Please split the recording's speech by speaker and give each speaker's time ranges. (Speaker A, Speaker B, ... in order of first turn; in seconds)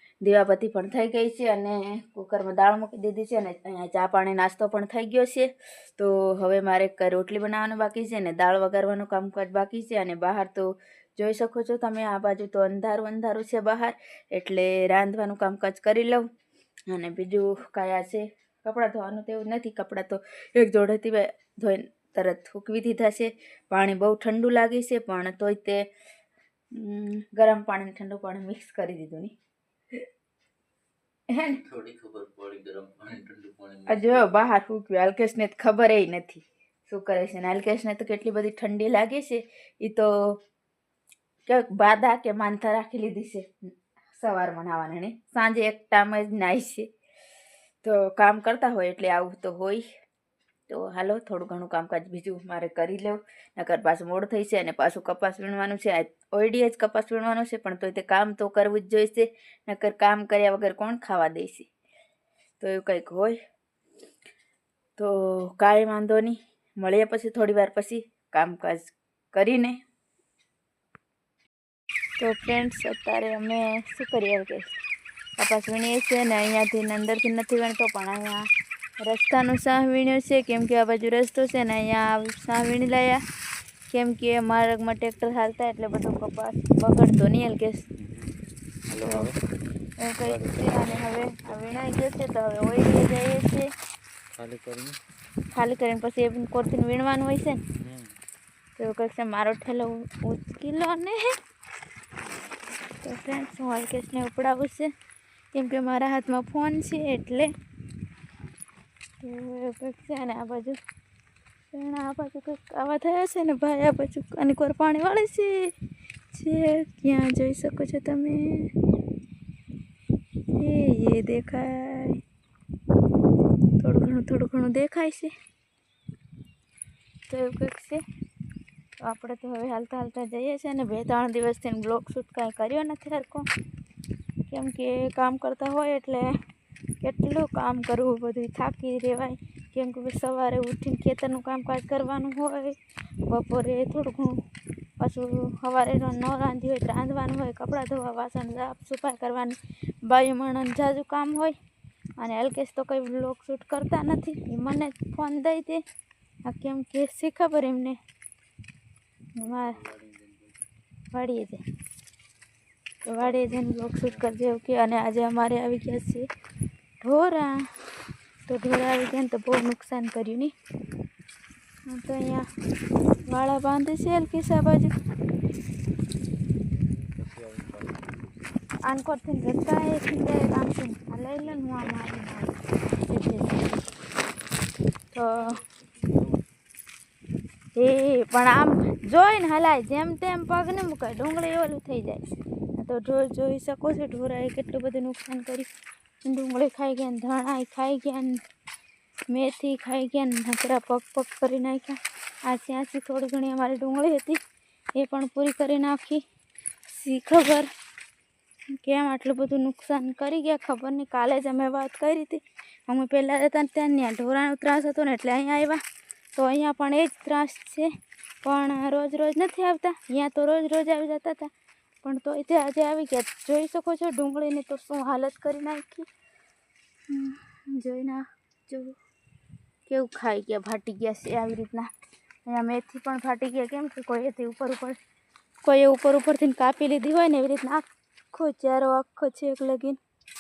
Speaker A: 0.2-16.2, 16.9-25.9, 26.7-29.3, 31.3-31.6, 33.9-40.3, 41.5-43.5, 44.1-46.9, 47.8-49.9, 50.7-61.7, 62.6-63.4, 65.0-69.8, 72.2-74.8, 75.4-78.5, 79.0-83.2, 83.9-87.9, 89.0-89.3, 90.0-93.7, 95.5-97.6, 98.8-101.3, 103.0-104.9, 105.5-107.5, 109.2-110.8, 111.7-115.7, 116.3-118.7, 120.6-122.2, 123.8-125.3, 127.3-128.0, 129.0-133.4, 134.5-136.3, 137.0-144.4, 145.0-151.6, 152.2-155.8, 156.5-158.0, 159.3-159.8, 161.1-161.6, 163.0-166.3, 167.0-167.6, 168.5-170.5, 171.9-172.5, 173.2-174.9, 178.8-183.8, 185.1-185.6, 187.8-192.2, 192.7-195.7, 196.2-198.4, 199.3-204.4, 205.0-206.2, 206.9-207.7, 208.7-215.8, 216.3-217.9, 218.4-221.5, 222.0-226.1, 227.1-229.0, 229.9-231.9, 232.4-235.0, 235.6-240.0
Speaker B: 31.5-34.5, 88.0-88.3, 88.9-89.4, 90.2-91.6, 94.3-95.0, 97.8-98.1, 159.4-160.6, 163.2-164.2, 176.7-178.3, 181.4-181.8, 185.4-186.5